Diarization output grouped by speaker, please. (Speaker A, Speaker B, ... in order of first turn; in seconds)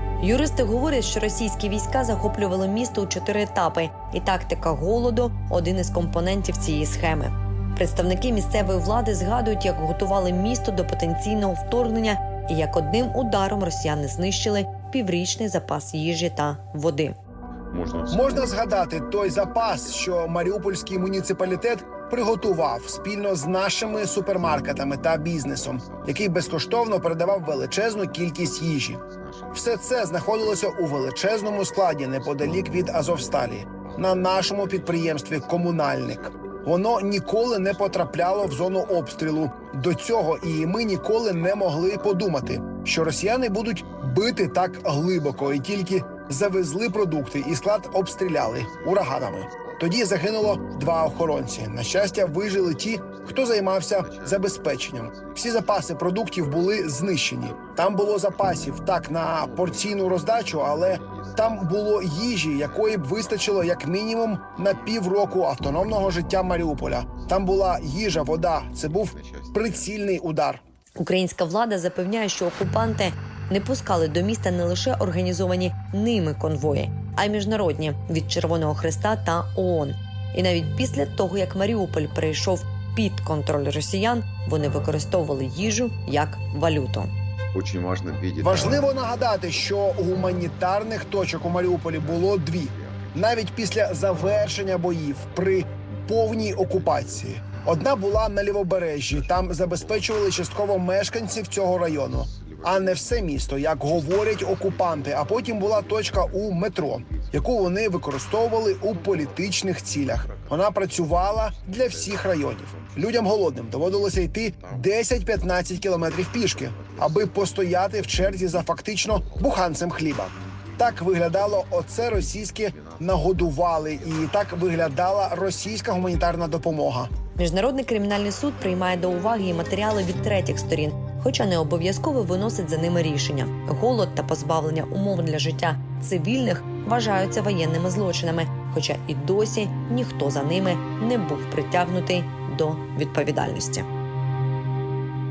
Speaker A: 0.2-17.1, 71.0-87.1, 127.4-143.8
Speaker B: 17.7-70.3, 84.6-84.9, 87.5-95.6, 96.2-126.7, 128.6-129.8
Speaker C: 18.1-70.6, 88.4-127.1